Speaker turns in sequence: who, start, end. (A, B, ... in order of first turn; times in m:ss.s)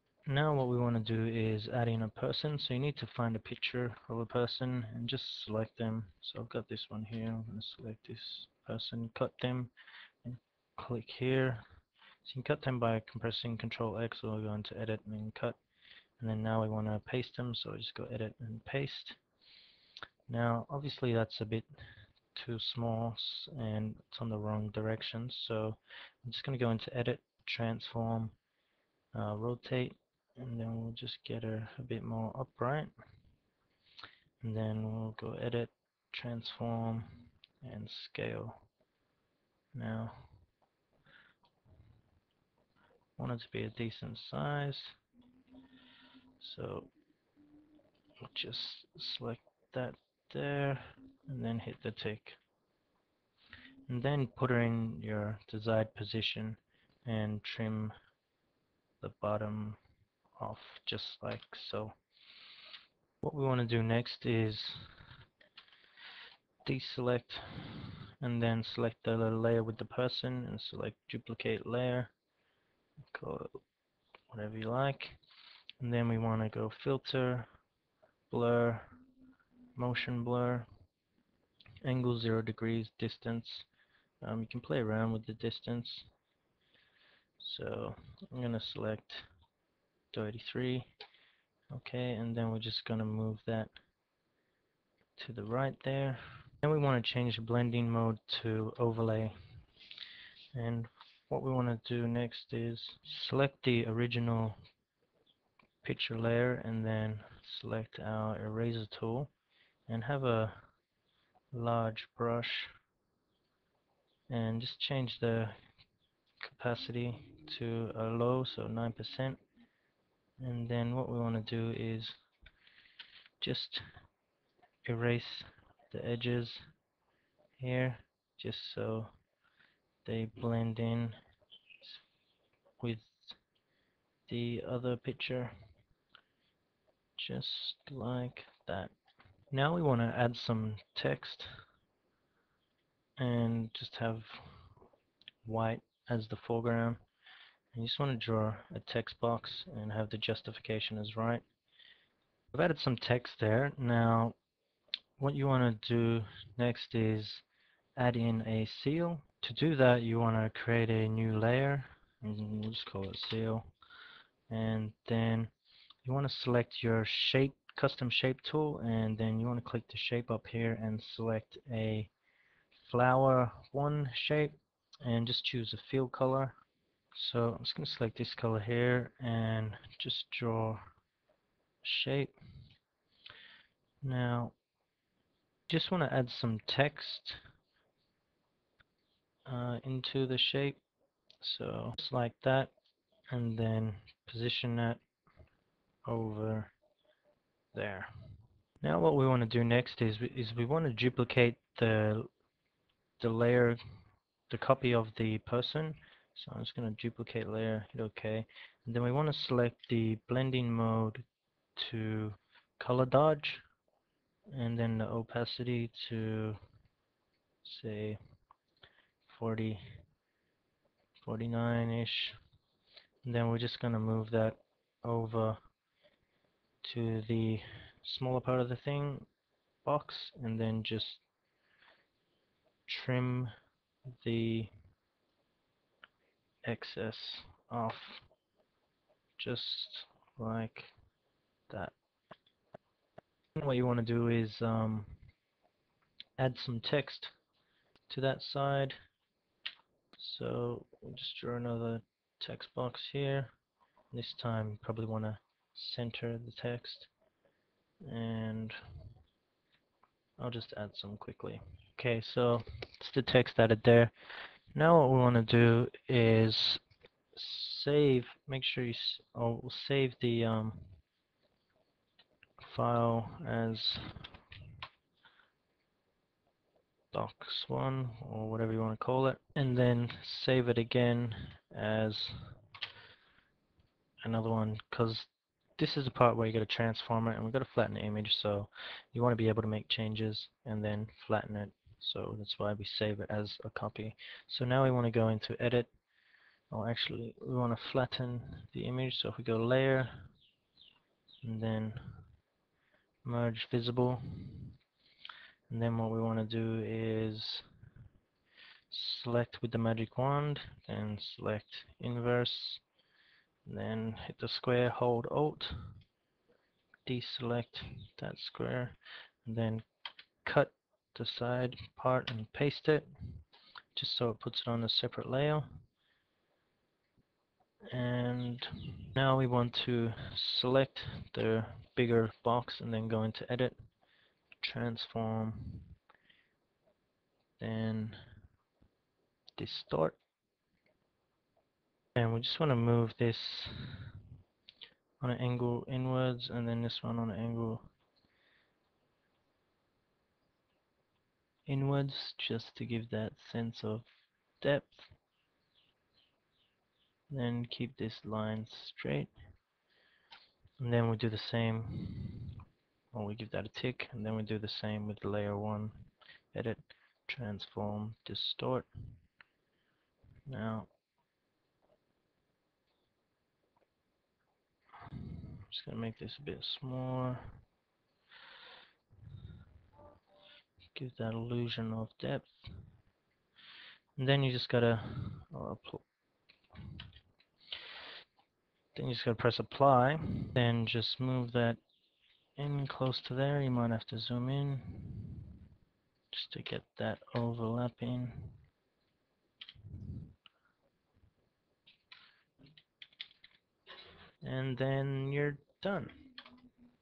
0:00.2-0:09.7 A
0:10.2-0:11.6 A
0:12.2-0:15.6 A
0:16.2-0:19.2 A
0:20.3-0:21.7 A
0:22.3-0:28.4 A
0:29.1-0:32.9 A
0:34.4-0:38.5 A
0:39.7-0:40.3 A
0:43.2-0:45.0 A
0:46.4-0:46.9 A
0:48.2-0:52.4 A
0:53.9-0:57.9 A
0:59.0-0:59.8 A
1:00.4-1:01.9 A
1:03.2-1:04.8 A
1:06.6-1:12.1 A
1:13.1-1:13.6 A
1:14.3-1:15.2 A
1:15.8-1:17.5 A
1:18.3-1:18.9 A
1:19.8-1:20.6 A
1:21.8-1:23.7 A
1:24.2-1:26.1 A
1:27.4-1:29.3 A
1:30.1-1:30.9 A
1:31.7-1:33.7 A
1:35.2-1:39.3 A
1:40.5-1:44.6 A
1:45.8-1:49.3 A
1:49.9-1:50.6 A
1:51.5-1:52.7 A
1:54.3-1:55.5 A
1:56.4-1:59.4 A
2:00.4-2:02.2 A
2:03.4-2:03.8 A
2:04.8-2:06.6 A
2:07.6-2:09.1 A
2:10.0-2:11.2 A
2:12.8-2:13.4 A
2:14.3-2:15.5 A
2:17.2-2:18.9 A
2:19.5-2:21.5 A
2:23.2-2:24.5 A
2:25.4-2:27.0 A
2:27.7-2:31.4 A
2:32.5-2:34.4 A
2:35.2-2:37.4 A
2:38.0-2:43.7 A
2:44.5-2:45.5 A
2:46.0-2:52.1 A
2:52.8-2:56.6 A
2:57.1-3:00.8 A
3:01.8-3:02.3 A
3:04.0-3:04.5 A
3:05.7-3:07.4 A
3:09.4-3:10.8 A
3:11.4-3:12.7 A
3:13.3-3:15.0 A
3:16.0-3:16.7 A
3:17.7-3:18.1 A
3:18.8-3:22.3 A
3:23.2-3:23.8 A
3:24.5-3:31.2 A
3:31.8-3:33.6 A
3:34.5-3:36.6 A
3:37.6-3:38.2 A
3:39.2-3:39.8 A
3:41.2-3:42.4 A
3:43.2-3:45.6 A
3:46.8-3:49.3 A
3:49.8-3:51.2 A
3:52.9-3:53.5 A
3:54.2-3:54.7 A
3:56.6-3:58.2 A
3:59.4-4:00.9 A
4:01.7-4:01.9 A
4:03.6-4:05.2 A
4:06.4-4:07.3 A
4:08.1-4:08.9 A
4:10.2-4:13.5 A
4:14.1-4:17.1 A
4:18.0-4:18.8 A
4:20.4-4:24.1 A
4:24.7-4:26.8 A
4:27.3-4:30.8 A
4:32.6-4:34.3 A
4:37.1-4:42.4 A
4:44.2-4:55.9 A
4:56.7-5:00.3 A
5:01.4-5:02.2 A
5:03.2-5:04.7 A
5:05.7-5:07.6 A
5:08.9-5:12.8 A
5:13.6-5:15.8 A
5:17.0-5:19.8 A
5:20.4-5:23.1 A
5:23.9-5:25.7 A
5:27.9-5:33.8 A
5:34.6-5:35.9 A
5:37.6-5:38.2 A
5:39.6-5:40.2 A
5:42.2-5:44.1 A
5:45.2-5:47.9 A
5:51.6-5:54.1 A
5:54.6-5:55.1 A
5:57.3-5:59.3 A
6:00.8-6:02.6 A
6:03.1-6:08.9 A
6:10.5-6:10.9 A
6:15.1-6:17.6 A
6:20.9-6:22.5 A
6:24.2-6:26.0 A
6:28.9-6:31.8 A
6:32.6-6:35.5 A
6:36.3-6:38.6 A
6:44.4-6:46.2 A